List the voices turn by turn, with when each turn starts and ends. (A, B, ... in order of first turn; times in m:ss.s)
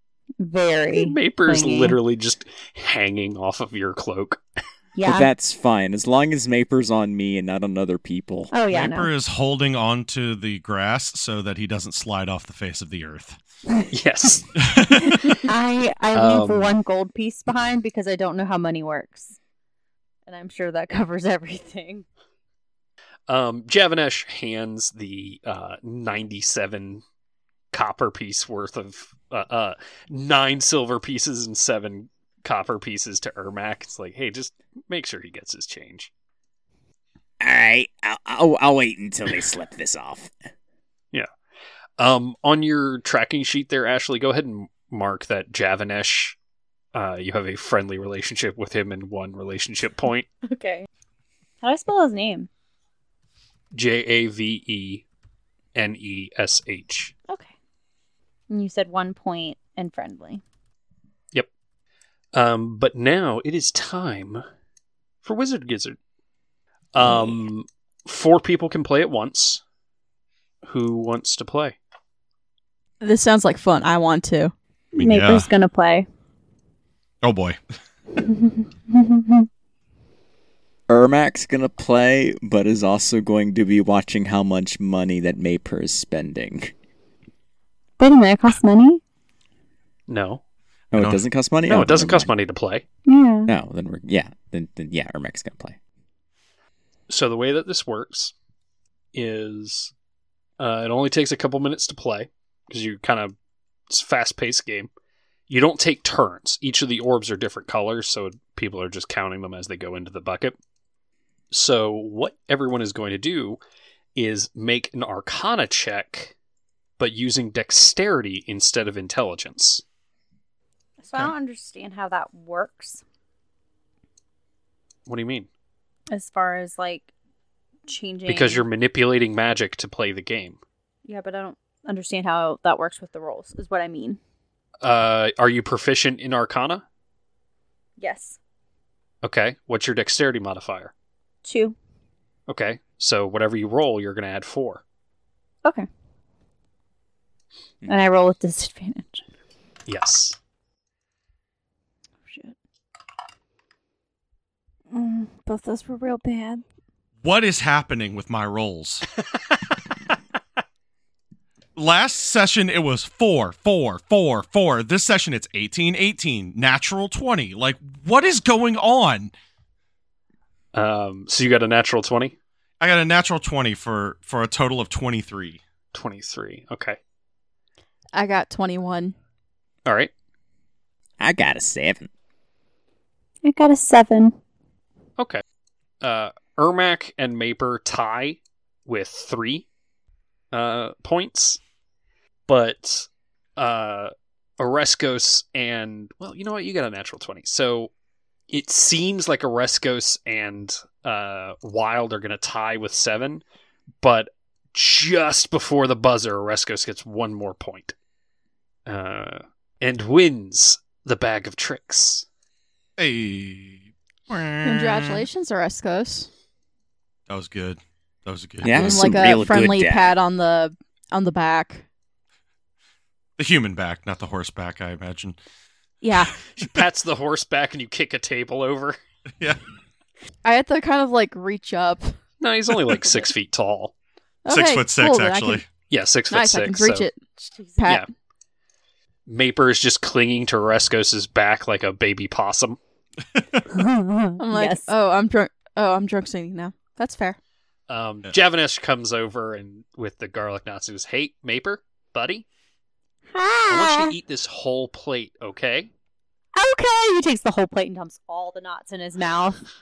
0:00.4-0:02.0 A
0:00.9-0:04.4 B
0:05.0-0:05.3 A
0:05.0-0:08.5 C
0:08.5-0:09.1 A
0:08.7-0:13.4 D
0:13.9-0:14.6 B
0:14.6-0:15.3 D
0:15.4-0:19.4 A
0:16.1-0:16.8 B
0:20.3-0:22.0 A
0:23.3-0:27.0 B
0:27.7-0:36.1 B
0:37.4-0:40.3 C
0:42.0-0:46.4 B
0:46.9-0:50.3 B
0:50.4-0:50.9 A
0:51.6-0:52.5 A
0:53.7-0:55.0 B
0:55.8-0:57.1 B
0:58.5-1:00.4 A
1:02.3-1:04.4 B
1:05.2-1:06.0 B
1:06.9-1:09.6 B
1:10.6-1:11.8 B
1:13.0-1:14.5 E
1:15.0-1:15.5 D
1:15.0-1:16.1 A
1:17.2-1:17.6 D
1:18.2-1:19.5 A
1:20.9-1:26.7 C
1:28.0-1:29.0 A
1:30.1-1:30.4 B
1:30.9-1:32.3 C
1:31.0-1:31.2 D
1:31.7-1:32.8 B
1:33.1-1:33.5 A
1:33.5-1:35.8 C
1:37.1-1:38.3 B
1:39.1-1:39.9 B
1:40.6-1:43.4 B
1:43.9-1:44.9 B
1:45.5-1:50.6 B
1:51.5-1:53.6 B
1:54.2-1:56.3 B
1:57.0-1:59.8 B
2:01.0-2:03.0 A
2:05.1-2:05.5 B
2:06.1-2:07.1 A
2:07.9-2:08.6 A
2:08.3-2:10.6 B
2:11.0-2:14.2 A
2:14.8-2:16.8 B
2:18.0-2:18.4 A
2:19.2-2:20.9 B
2:21.4-2:21.8 A
2:22.5-2:24.8 B
2:27.9-2:29.2 A
2:29.9-2:30.4 B
2:32.3-2:32.5 A
2:34.9-2:36.6 A
2:37.2-2:39.1 D
2:41.8-2:49.3 D
2:50.7-2:52.4 B
2:52.8-2:55.6 D
2:55.9-2:57.0 B
2:58.2-2:59.1 E
2:59.9-3:00.1 B
3:01.2-3:02.1 C
3:03.4-3:04.4 A
3:06.0-3:09.7 B
3:10.5-3:11.6 B
3:12.5-3:17.9 B
3:18.5-3:23.4 B
3:24.0-3:28.0 B
3:28.9-3:32.3 B
3:33.0-3:35.3 D
3:34.6-3:36.3 E
3:37.3-3:39.3 D
3:38.6-3:40.2 C
3:38.7-3:41.9 E
3:43.4-3:45.4 D
3:46.0-3:46.3 E
3:46.2-3:46.6 D
3:46.6-3:49.0 B
3:50.4-3:52.2 E
3:52.4-3:53.9 B
3:54.4-3:55.6 E
3:54.5-3:55.7 D
3:55.9-3:57.1 B
3:56.3-3:58.1 E
3:59.3-4:02.8 B
4:03.4-4:03.6 D
4:03.7-4:04.9 A
4:04.4-4:07.4 E
4:07.9-4:12.5 B
4:13.3-4:14.1 A
4:13.7-4:15.9 B
4:16.6-4:19.6 A